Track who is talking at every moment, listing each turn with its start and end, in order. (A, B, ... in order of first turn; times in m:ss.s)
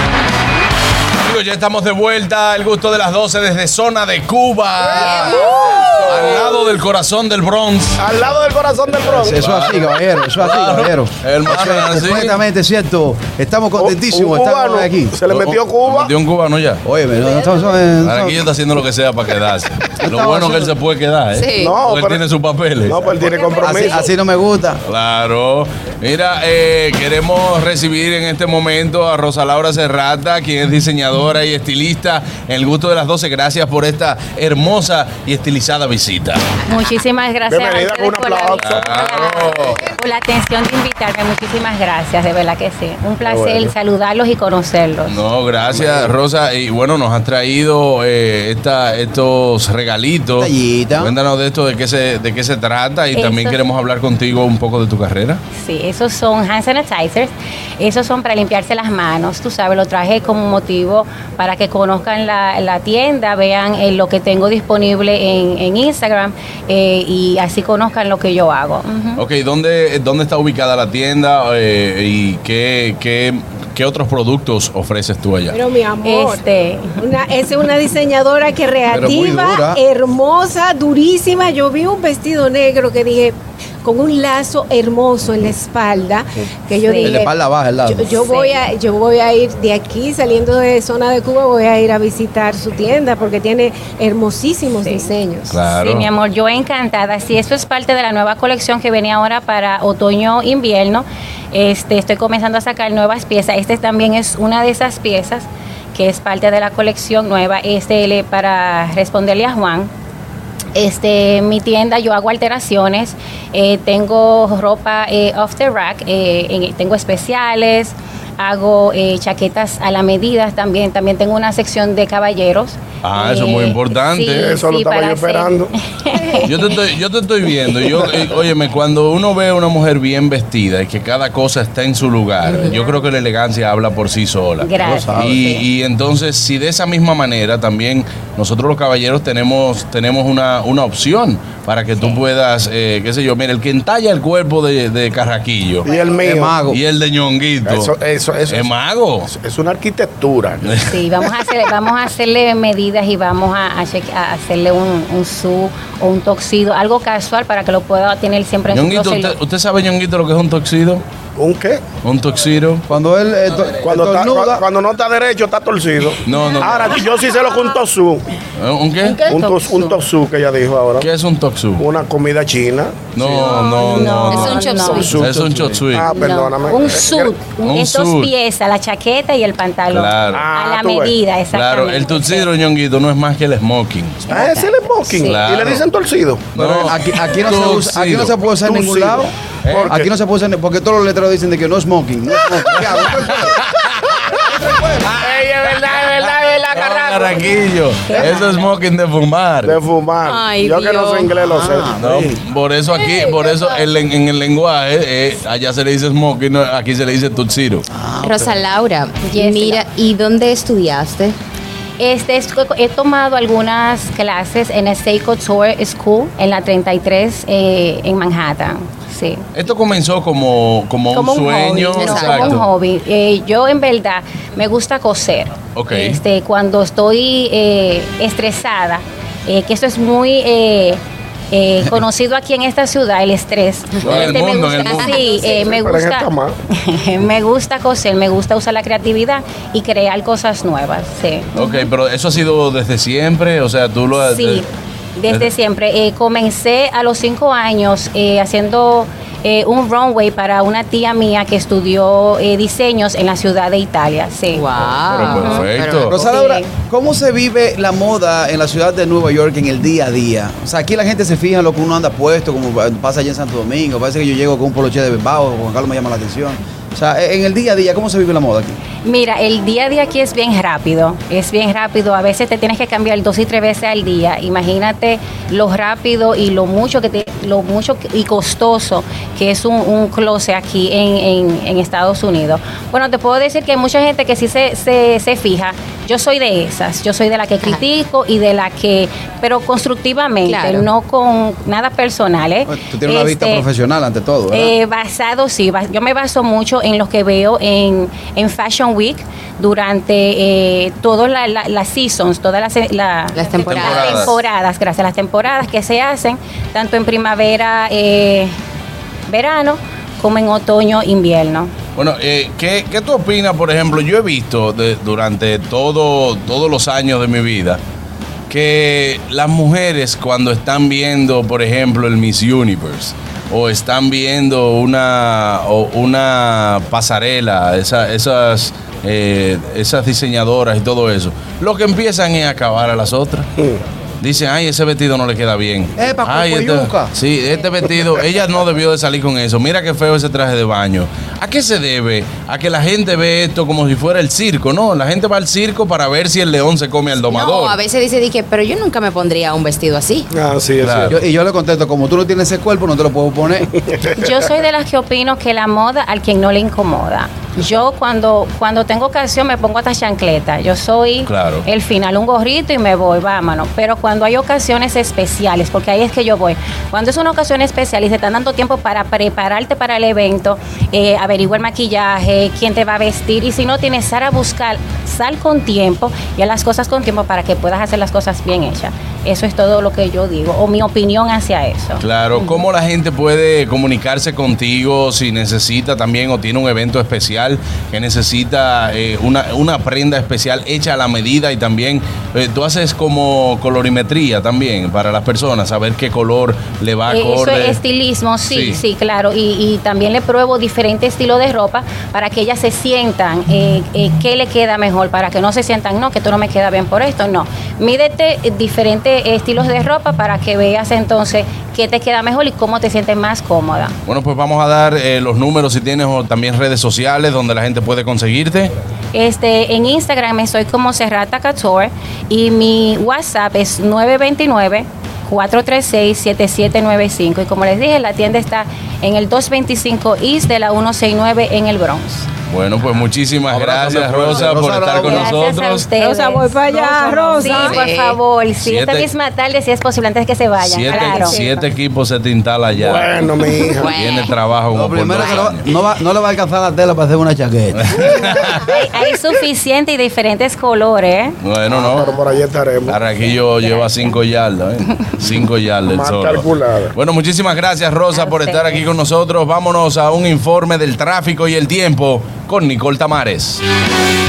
0:01.2-0:05.5 A
0:04.8-0:06.7 B
0:05.1-0:05.6 C
0:06.0-0:08.0 A
0:08.0-0:09.4 B
0:09.1-0:15.2 D
0:09.2-0:12.4 A
0:13.8-0:16.1 B
0:15.3-0:16.8 A
0:16.8-0:18.4 D
0:18.0-0:23.0 A
0:20.0-0:20.8 D
0:21.3-0:21.8 C
0:21.6-0:22.2 B
0:22.9-0:24.1 B
0:23.2-0:23.8 E
0:23.6-0:24.8 D
0:24.8-0:36.5 A
0:36.7-0:45.2 F
0:37.4-0:39.8 B
0:38.6-0:39.9 A
0:43.2-0:43.7 B
0:45.1-0:55.4 A
0:45.7-0:46.1 B
0:50.4-0:51.2 D
0:53.1-0:53.6 F
0:55.6-1:09.2 F
1:09.2-1:15.6 A
1:15.5-1:27.3 E
1:16.0-1:17.0 F
1:18.9-1:19.8 D
1:26.8-1:27.2 F
1:27.0-1:28.1 D
1:27.9-1:35.6 E
1:28.1-1:28.6 F
1:34.8-1:35.1 F
1:35.5-1:36.1 A
1:35.7-1:49.9 F
1:50.8-2:06.7 F
2:03.0-2:04.6 A
2:04.4-2:05.7 B
2:06.4-2:25.9 A
2:14.6-2:15.4 F
2:14.8-2:15.5 D
2:25.9-2:26.6 B
2:26.2-2:26.8 D
2:26.7-2:27.9 A
2:27.6-2:28.7 B
2:28.5-2:29.3 A
2:29.3-2:30.8 B
2:30.6-2:31.0 A
2:30.9-2:39.4 F
2:38.7-2:41.0 A
2:41.4-2:41.8 B
2:42.0-2:42.8 A
2:42.9-2:44.6 D
2:43.8-2:48.3 B
2:46.2-2:47.0 A
2:48.6-2:49.3 A
2:49.0-2:49.9 C
2:49.3-2:51.1 B
2:51.0-2:51.8 A
2:51.8-2:57.4 B
2:53.1-2:56.1 A
2:53.4-2:55.1 F
2:54.4-2:55.2 C
2:56.1-3:02.5 F
2:57.6-2:58.3 A
2:59.9-3:00.5 A
3:00.3-3:01.2 B
3:01.5-3:04.4 A
3:04.3-3:05.4 F
3:04.3-3:06.5 B
3:05.2-3:05.9 A
3:06.6-3:08.4 A
3:06.6-3:09.3 D
3:08.6-3:10.1 B
3:09.6-3:09.9 A
3:09.8-3:13.6 D
3:12.5-3:14.4 A
3:14.4-3:15.1 D
3:15.0-3:19.8 A
3:15.1-3:17.6 B
3:18.1-3:18.7 F
3:19.6-3:22.4 B
3:20.2-3:21.3 C
3:21.4-3:22.1 D
3:22.0-3:27.9 A
3:27.9-3:28.6 D
3:28.2-3:31.4 C
3:29.3-3:29.9 F
3:32.0-3:39.5 F
3:39.5-3:42.7 A
3:41.1-3:51.0 F
3:42.0-3:42.5 C
3:45.7-3:46.2 A
3:51.5-4:01.9 F
3:54.0-3:55.1 A
3:54.0-3:55.3 C
3:55.4-3:56.6 B
4:01.6-4:04.6 A
4:04.1-4:16.7 F
4:14.5-4:16.2 C
4:15.1-4:16.2 A
4:16.1-4:28.8 D
4:29.0-4:53.7 F
4:50.5-4:50.9 C
4:52.7-4:54.7 D
4:54.5-5:08.5 F
5:03.4-5:04.2 C
5:03.6-5:04.4 A
5:09.3-5:11.7 F
5:12.0-5:17.8 A
5:18.5-5:33.5 A
5:34.2-5:47.8 A
5:36.0-5:37.1 D
5:47.3-5:50.3 C
5:50.3-5:51.1 B
5:50.8-5:51.1 A
5:51.1-5:53.7 D
5:53.9-5:54.1 B
5:54.1-6:22.6 F
6:01.3-6:01.7 A
6:22.0-6:37.8 A
6:37.1-6:54.0 F
6:38.5-6:38.8 A
6:54.1-6:58.7 A
6:59.1-7:12.3 F
7:12.5-7:15.9 A
7:13.5-7:15.3 D
7:15.0-7:21.4 F
7:16.0-7:17.8 E
7:17.4-7:18.2 C
7:18.6-7:19.1 A
7:20.6-7:23.2 A
7:21.0-7:21.5 C
7:22.8-7:23.9 B
7:23.8-7:24.3 C
7:23.8-7:25.7 A
7:24.7-7:28.5 D
7:27.7-7:28.9 A
7:28.1-7:31.4 F
7:31.4-7:32.1 A
7:31.7-7:33.0 B
7:32.9-7:43.6 A
7:33.4-7:34.2 F
7:35.9-7:36.9 B
7:38.1-7:38.9 F